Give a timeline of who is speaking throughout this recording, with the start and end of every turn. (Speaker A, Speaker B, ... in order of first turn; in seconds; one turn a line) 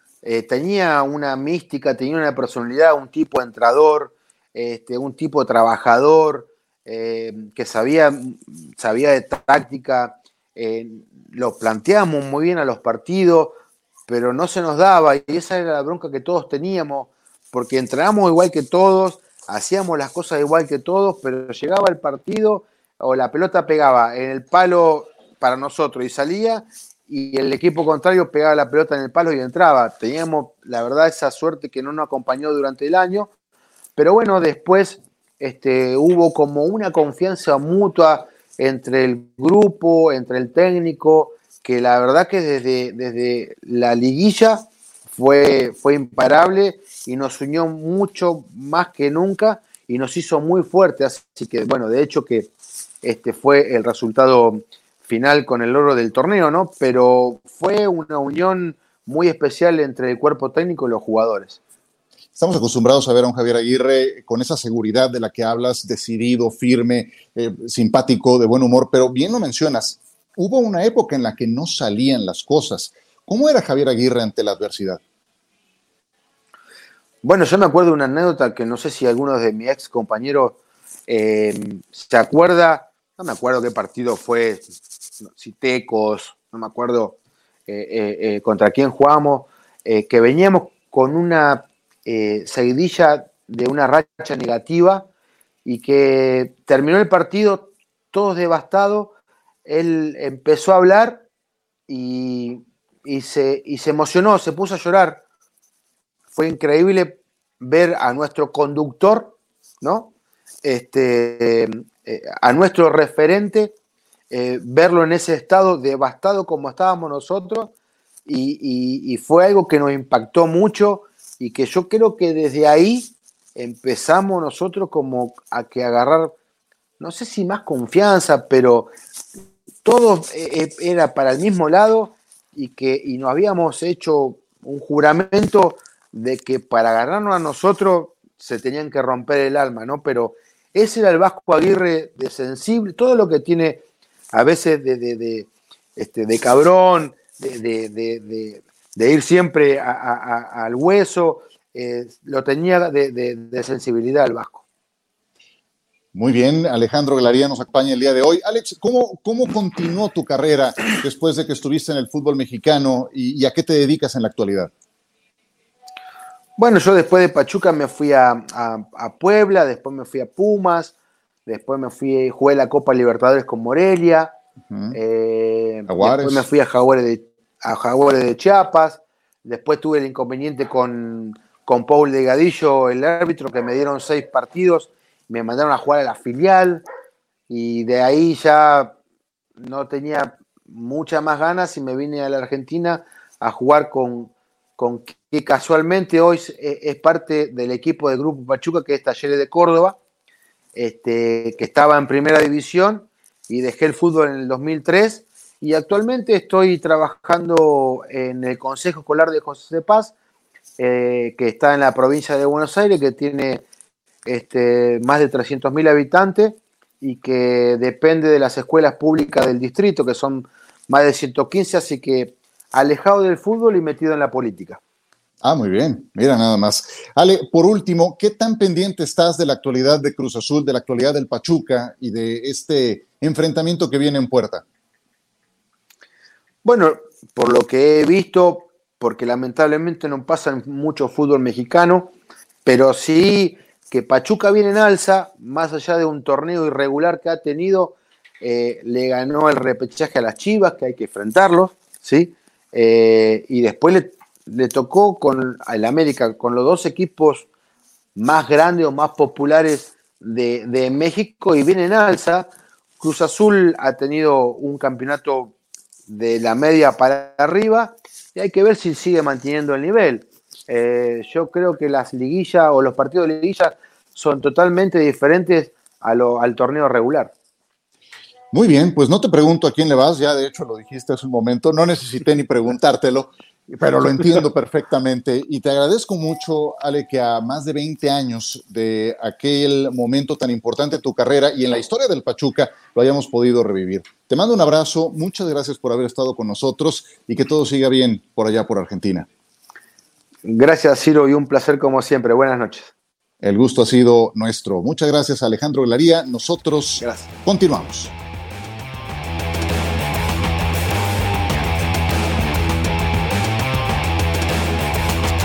Speaker A: 0.2-13.5
Speaker A: 14.1-33.3
Speaker A: 34.0-52.5
Speaker A: 53.0-61.6
Speaker B: 62.4-75.0
Speaker A: 77.2-84.7
Speaker A: 85.4-87.2
Speaker A: 87.7-95.1
Speaker A: 95.7-99.1
Speaker A: 99.7-101.2
Speaker A: 101.9-105.2
Speaker A: 106.3-110.1
Speaker A: 110.6-113.7
Speaker A: 114.3-117.7
Speaker A: 118.3-126.3
Speaker A: 127.0-128.9
Speaker A: 129.8-143.8
Speaker A: 144.3-154.7
Speaker B: 156.1-164.7
Speaker A: 166.6-170.9
Speaker A: 171.5-174.3
Speaker B: 174.7-175.0
Speaker A: 174.9-186.8
Speaker B: 175.9-176.4
Speaker A: 187.5-189.0
Speaker A: 189.6-200.0
Speaker A: 200.8-210.1
Speaker A: 210.8-213.6
Speaker A: 214.3-224.8
Speaker B: 225.4-234.6
Speaker A: 236.6-242.1
Speaker A: 242.7-257.5
Speaker A: 258.2-265.5
Speaker A: 266.1-277.3
Speaker B: 278.5-299.3
Speaker A: 300.4-302.9
Speaker B: 303.4-308.1